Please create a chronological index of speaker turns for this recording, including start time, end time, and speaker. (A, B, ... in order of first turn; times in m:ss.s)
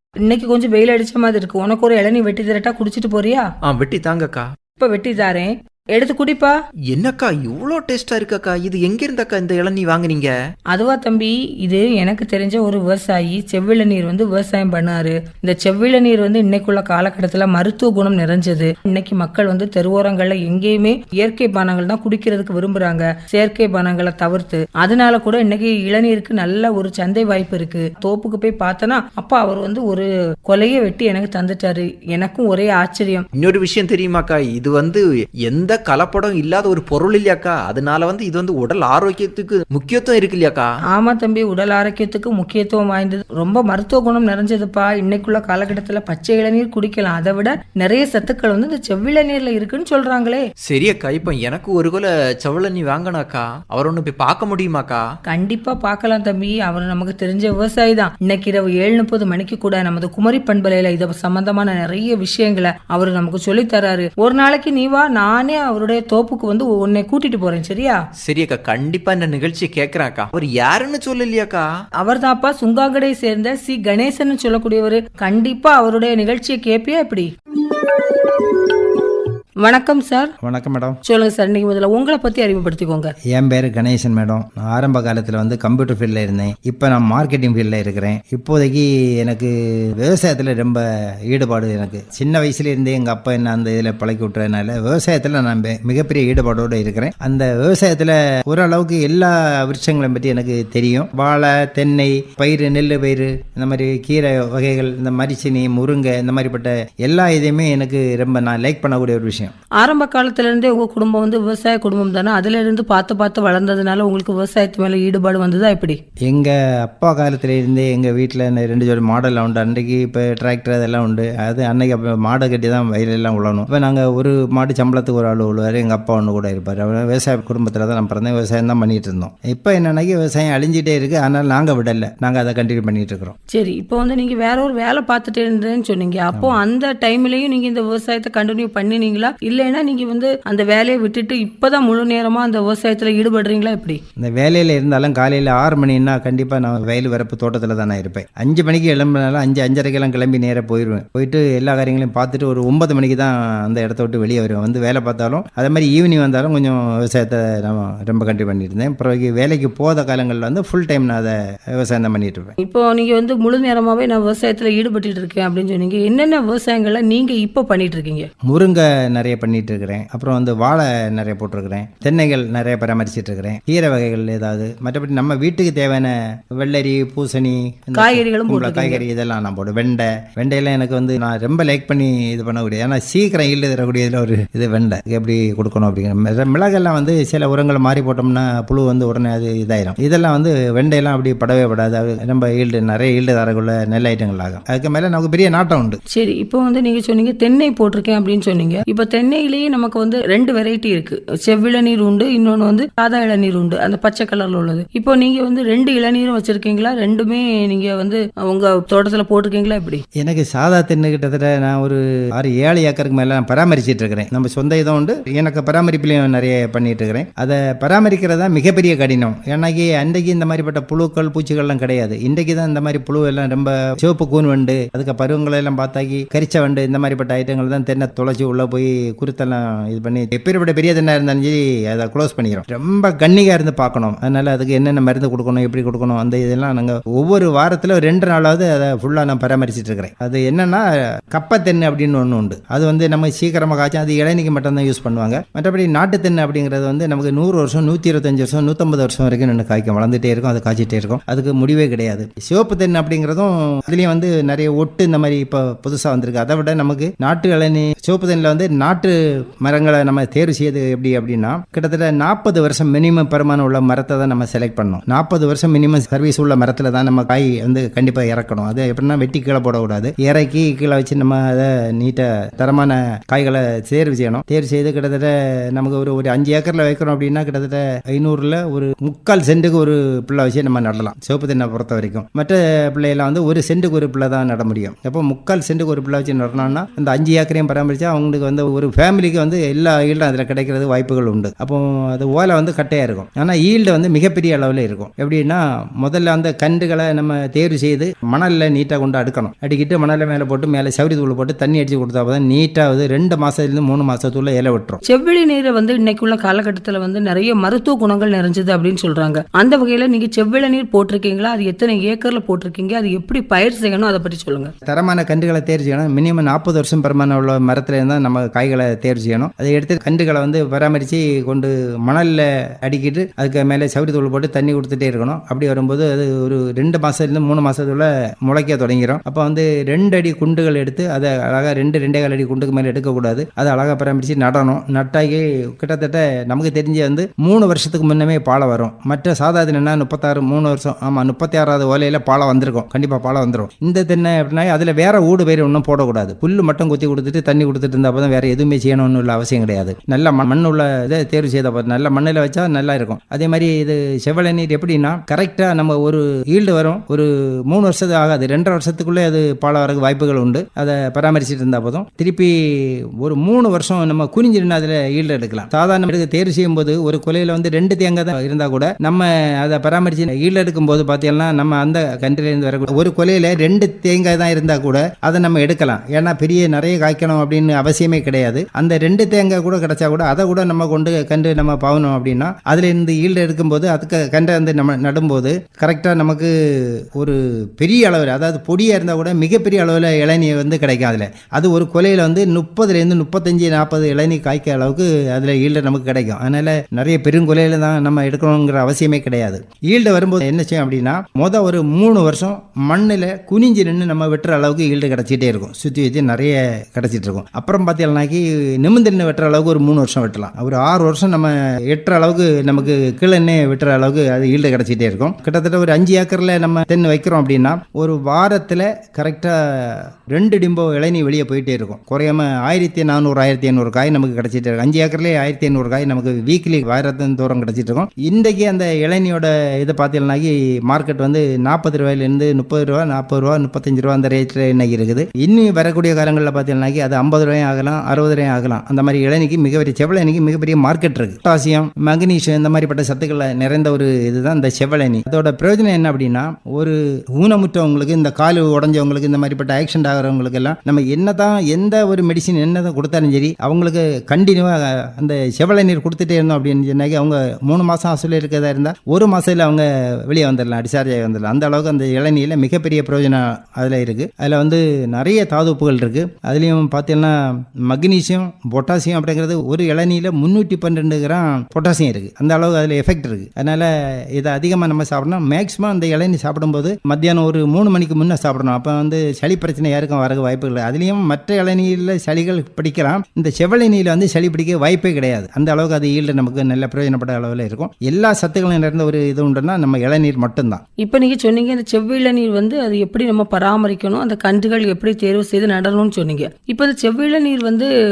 0:00.2-0:03.4 A
0:03.6-0:04.5 B
0:04.8-0:06.5 A
0:06.9-0:10.3 B
0:10.7-0:33.2 A
0:33.3-0:40.7 B
0:40.9-0:50.4 A
0:50.7-0:55.0 B
0:55.3-1:08.0 A
1:08.2-1:11.7 B
1:12.0-1:17.3 A
1:19.6-1:20.3 A
1:20.4-1:21.0 C
1:21.0-1:23.1 A
1:23.3-1:49.5 C
1:49.8-1:56.0 A
1:56.2-2:13.4 C
2:13.5-2:24.0 A
2:16.3-2:16.6 C
2:24.2-2:42.5 C
2:42.6-2:48.3 A
2:48.5-3:16.0 C
2:58.0-2:59.0 A
3:16.1-3:30.0 A
3:30.2-5:05.0 C
5:05.0-5:14.7 A
5:14.9-8:10.8 C
8:11.0-8:17.9 A